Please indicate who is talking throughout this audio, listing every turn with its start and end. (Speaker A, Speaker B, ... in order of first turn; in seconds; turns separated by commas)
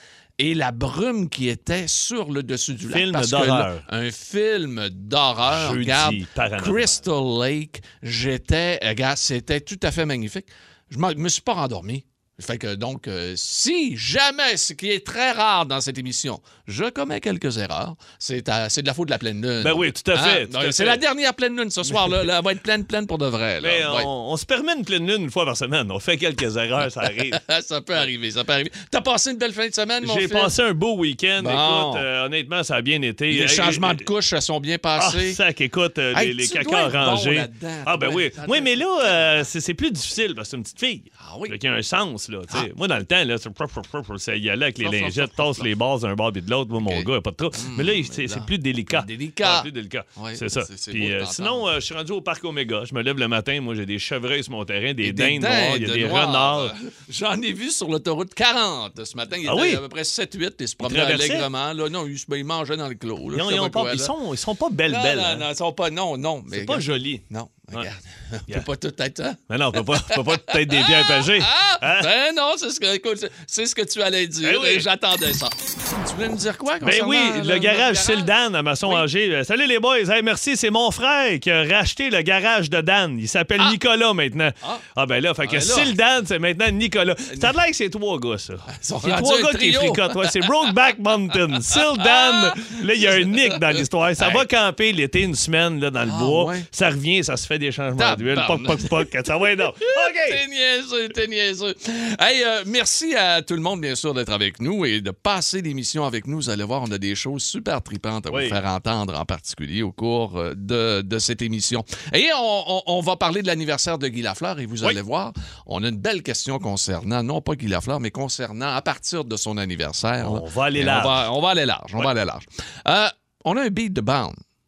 Speaker A: 0.4-24.1, Speaker B: 2.9-3.8, Speaker B: 5.5-7.0, Speaker B: 19.6-21.0, Speaker B: 21.8-22.3, Speaker B: 23.6-27.4, Speaker A: 27.3-30.5, Speaker B: 30.0-34.0, Speaker A: 31.4-32.0, Speaker A: 33.3-35.4, Speaker B: 35.0-56.7, Speaker A: 36.1-39.3, Speaker A: 41.2-41.5, Speaker A: 44.8-45.7, Speaker A: 46.8-51.7, Speaker A: 55.0-64.1, Speaker B: 59.4-59.8, Speaker B: 60.8-61.5, Speaker B: 63.3-65.5, Speaker A: 64.9-78.3, Speaker B: 66.5-67.9, Speaker B: 69.5-72.1, Speaker B: 74.4-74.9, Speaker B: 76.8-100.4, Speaker A: 85.4-85.9, Speaker A: 88.7-90.5, Speaker A: 91.7-94.5, Speaker A: 96.0-96.7, Speaker A: 98.0-99.2, Speaker A: 99.8-124.4, Speaker B: 108.3-108.6, Speaker B: 120.2-121.3